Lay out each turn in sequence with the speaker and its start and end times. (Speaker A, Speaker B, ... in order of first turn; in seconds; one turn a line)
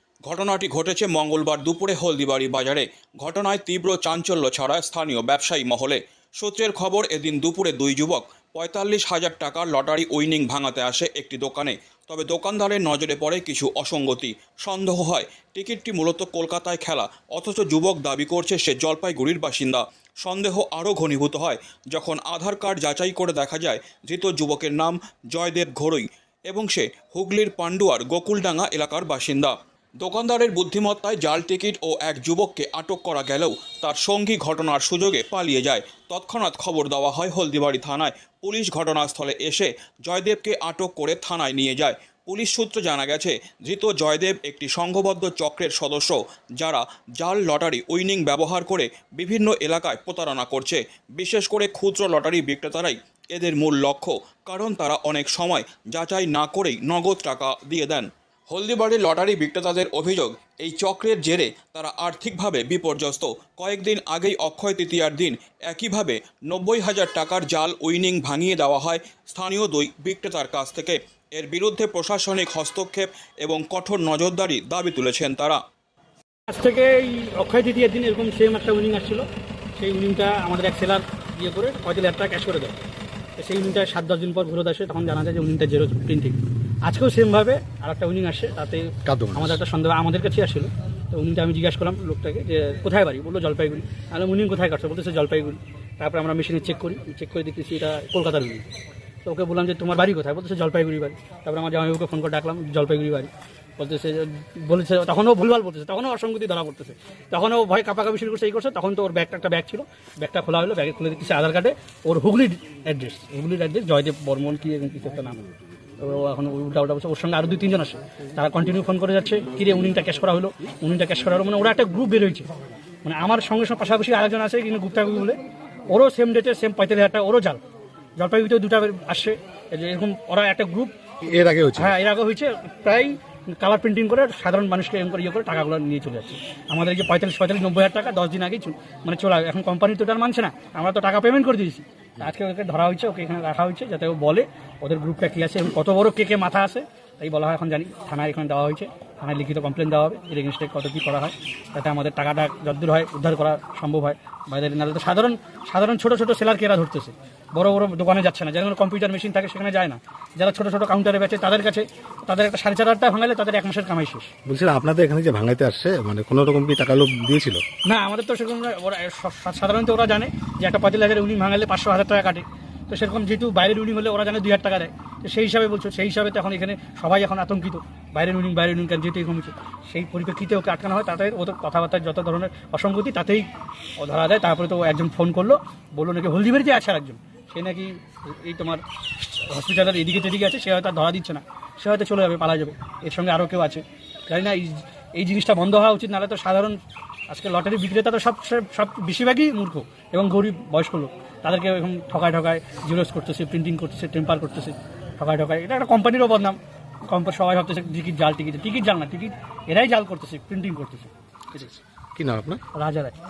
Speaker A: 0.3-75.6
Speaker B: 76.5-79.2
Speaker B: 79.8-82.8
Speaker B: 83.4-98.7
Speaker C: 89.0-89.6
Speaker B: 99.2-115.4
Speaker B: 116.0-122.5
Speaker B: 123.0-127.6
Speaker B: 128.2-130.9
Speaker C: 131.2-131.9
Speaker B: 131.8-164.3
Speaker C: 164.5-167.6
Speaker B: 167.9-196.8
Speaker B: 197.3-211.7
Speaker C: 211.5-212.6
Speaker B: 212.7-213.1